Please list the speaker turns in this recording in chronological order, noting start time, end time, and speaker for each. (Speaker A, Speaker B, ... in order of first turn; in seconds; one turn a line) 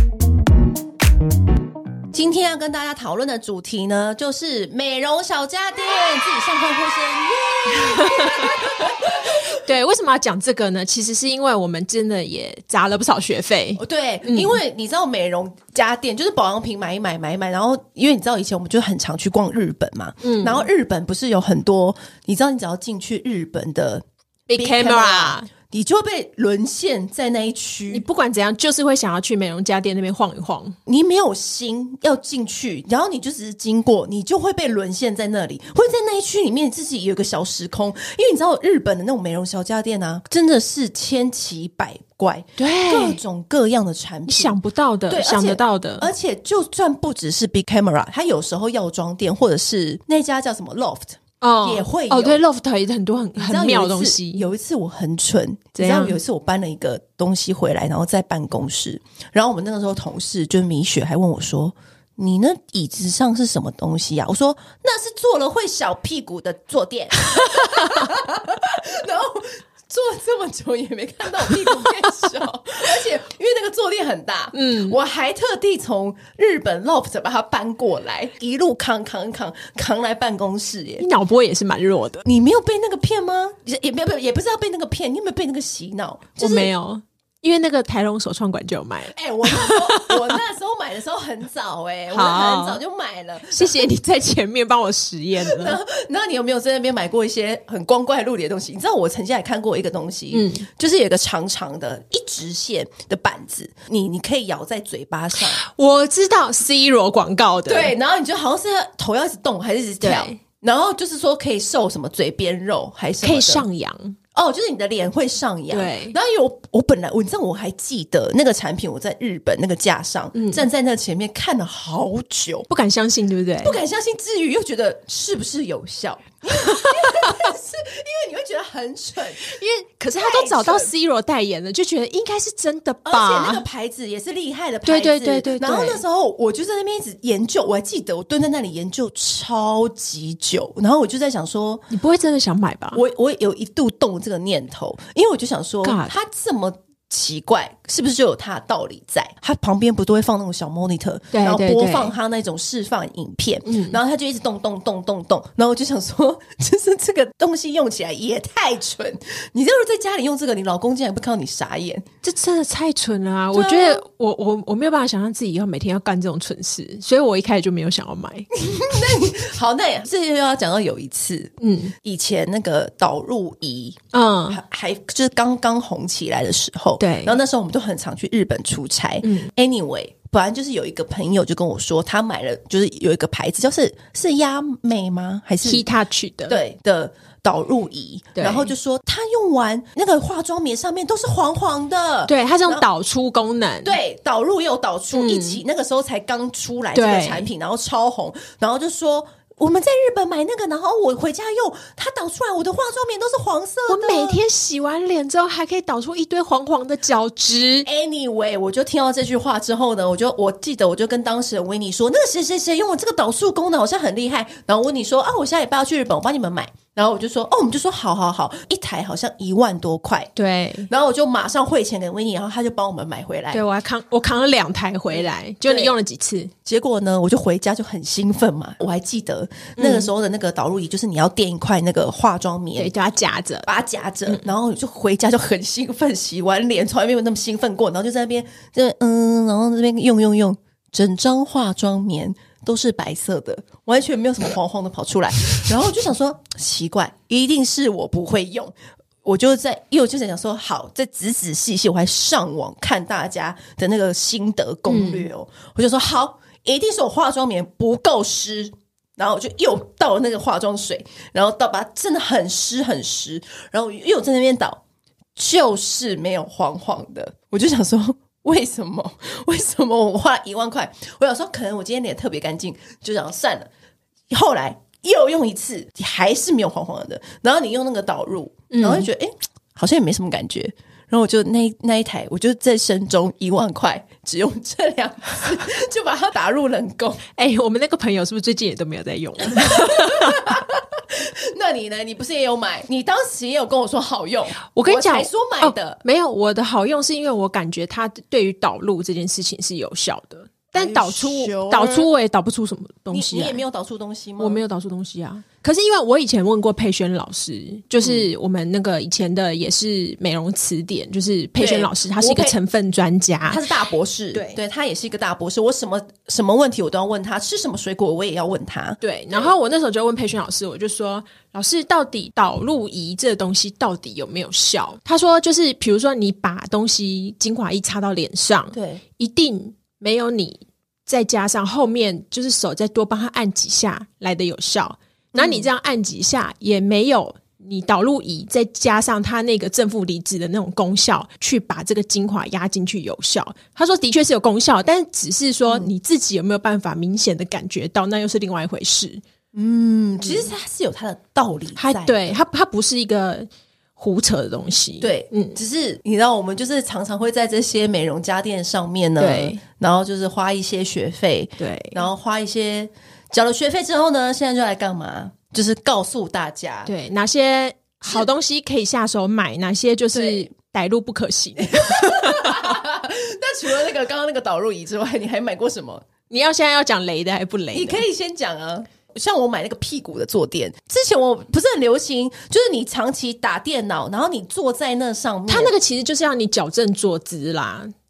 Speaker A: 2.1-9.4
Speaker B: 7.8-8.7
Speaker B: 9.5-14.6
Speaker A: 13.8-24.0
Speaker B: 20.2-20.7
Speaker B: 24.5-25.5
Speaker A: 24.6-28.0
Speaker B: 27.9-30.8
Speaker A: 30.9-44.6
Speaker B: 42.6-43.2
Speaker B: 44.3-46.1
Speaker A: 45.1-52.4
Speaker B: 51.4-54.4
Speaker A: 53.4-81.1
Speaker B: 55.8-56.2
Speaker B: 67.4-68.0
Speaker B: 71.5-72.1
Speaker B: 74.5-75.0
Speaker B: 81.0-82.3
Speaker A: 82.2-86.7
Speaker B: 86.4-90.4
Speaker A: 89.1-93.9
Speaker B: 92.1-92.8
Speaker B: 93.5-95.8
Speaker A: 95.4-105.6
Speaker B: 100.3-100.7
Speaker B: 105.4-108.0
Speaker A: 107.7-113.7
Speaker B: 110.0-110.4
Speaker B: 113.2-114.2
Speaker A: 114.3-122.7
Speaker B: 115.7-116.2
Speaker B: 120.3-120.6
Speaker B: 122.7-123.8
Speaker A: 123.6-129.6
Speaker B: 126.7-127.5
Speaker B: 129.4-133.6
Speaker A: 130.1-130.9
Speaker A: 133.1-141.9
Speaker B: 134.8-136.0
Speaker B: 141.9-143.0
Speaker A: 142.9-162.1
Speaker B: 145.8-146.2
Speaker B: 151.3-152.2
Speaker B: 153.7-154.0
Speaker B: 162.2-168.5
Speaker A: 163.5-164.0
Speaker A: 168.6-185.8
Speaker B: 171.6-171.9
Speaker B: 174.1-174.6
Speaker B: 177.0-177.4
Speaker B: 179.2-179.5
Speaker B: 185.6-186.6
Speaker A: 186.5-192.8
Speaker B: 188.4-188.7
Speaker B: 192.3-194.0
Speaker A: 193.8-204.4
Speaker B: 195.1-195.6
Speaker B: 196.9-197.5
Speaker B: 203.9-207.9
Speaker A: 207.8-220.3
Speaker B: 220.4-220.9
Speaker A: 220.9-223.6
Speaker B: 223.5-226.5
Speaker A: 225.7-225.9
Speaker A: 226.7-232.9
Speaker B: 229.8-230.1
Speaker B: 232.8-233.7
Speaker A: 233.7-264.8
Speaker B: 254.9-255.3
Speaker A: 265.4-273.7
Speaker A: 274.3-287.2
Speaker B: 278.7-279.1
Speaker B: 287.4-290.6
Speaker A: 289.5-296.0
Speaker B: 294.8-303.6
Speaker A: 300.8-302.1
Speaker A: 303.1-304.6
Speaker B: 304.4-313.7
Speaker A: 308.0-308.3
Speaker A: 311.6-312.5
Speaker A: 313.5-319.5
Speaker B: 314.3-314.6
Speaker B: 319.0-349.2
Speaker A: 328.7-329.0
Speaker A: 335.3-335.7
Speaker A: 349.5-352.2
Speaker B: 350.2-350.5
Speaker B: 351.8-355.6
Speaker A: 355.0-366.9
Speaker B: 359.2-359.6
Speaker B: 361.6-362.1
Speaker B: 366.9-372.8
Speaker A: 370.1-370.5
Speaker A: 371.6-376.0
Speaker B: 376.3-378.1
Speaker A: 377.7-385.7
Speaker B: 385.5-387.9